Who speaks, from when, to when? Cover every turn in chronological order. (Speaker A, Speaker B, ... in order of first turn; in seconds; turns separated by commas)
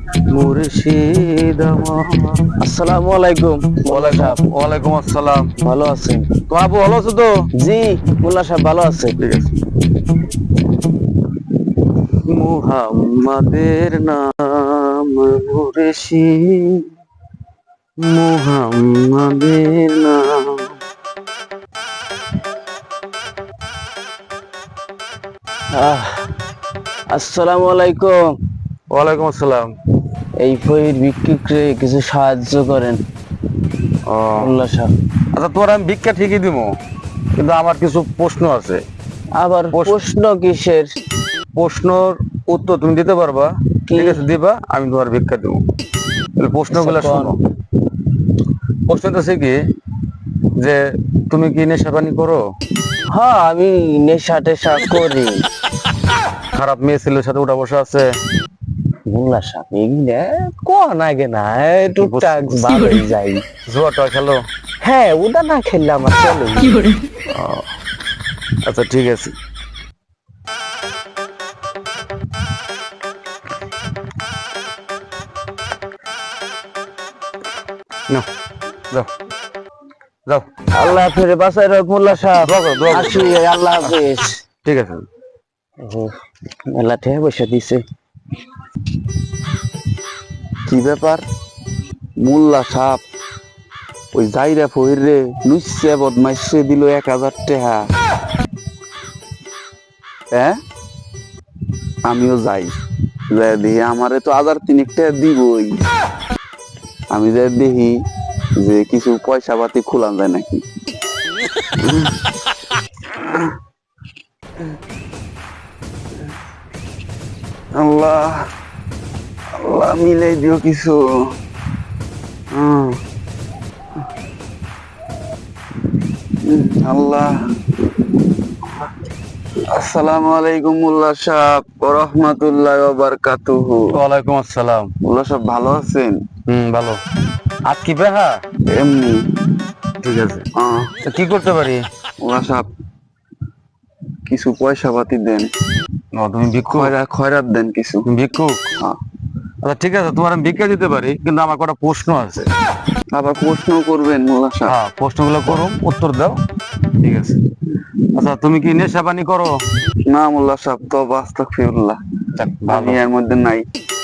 Speaker A: 0.3-2.4, Speaker B: 2.6-4.5, Speaker A: 3.9-5.5, Speaker B: 5.6-6.3, Speaker A: 6.5-7.3, Speaker B: 7.6-9.2, Speaker A: 9.2-9.5, Speaker A: 12.3-16.8, Speaker A: 18.0-20.7, Speaker B: 25.7-26.2, Speaker B: 27.1-28.3, Speaker A: 28.9-29.7, Speaker B: 30.4-33.0, Speaker A: 34.0-34.5, Speaker B: 34.4-34.9, Speaker A: 35.3-36.8, Speaker A: 37.3-38.8, Speaker B: 39.3-40.9, Speaker A: 39.7-40.0, Speaker A: 41.5-45.6, Speaker B: 43.9-44.2, Speaker A: 46.4-47.4, Speaker B: 46.7-47.4, Speaker A: 48.9-49.6, Speaker A: 50.6-52.4, Speaker B: 53.1-55.4, Speaker A: 56.5-58.1, Speaker B: 59.1-63.4, Speaker A: 62.0-63.0, Speaker A: 63.7-64.4, Speaker B: 64.8-67.0, Speaker A: 67.2-67.7, Speaker A: 68.6-69.3, Speaker B: 80.8-84.4, Speaker A: 82.1-84.0, Speaker A: 84.6-85.0, Speaker B: 85.8-86.1, Speaker B: 86.7-87.8, Speaker C: 90.7-91.2, Speaker C: 92.2-93.0, Speaker C: 94.1-97.9, Speaker C: 100.3-100.6, Speaker C: 102.0-102.8, Speaker C: 103.3-105.8, Speaker C: 107.1-108.0, Speaker C: 108.6-110.6, Speaker C: 111.8-112.2, Speaker C: 113.1-113.5, Speaker C: 117.7-118.5, Speaker C: 119.5-121.3, Speaker C: 122.5-123.0, Speaker C: 126.4-127.3, Speaker C: 129.7-133.9, Speaker A: 133.9-134.9, Speaker C: 135.0-136.2, Speaker A: 136.5-137.0, Speaker A: 137.6-138.4, Speaker C: 138.6-139.2, Speaker A: 140.0-140.4, Speaker C: 140.5-140.9, Speaker A: 141.0-141.8, Speaker C: 142.2-142.7, Speaker C: 144.2-145.5, Speaker A: 146.1-146.9, Speaker C: 146.7-148.1, Speaker A: 148.1-148.6, Speaker A: 149.6-152.5, Speaker C: 153.1-154.8, Speaker A: 154.7-156.4, Speaker A: 157.0-157.4, Speaker A: 158.1-159.6, Speaker C: 160.1-162.0, Speaker A: 162.4-163.0, Speaker C: 162.7-163.6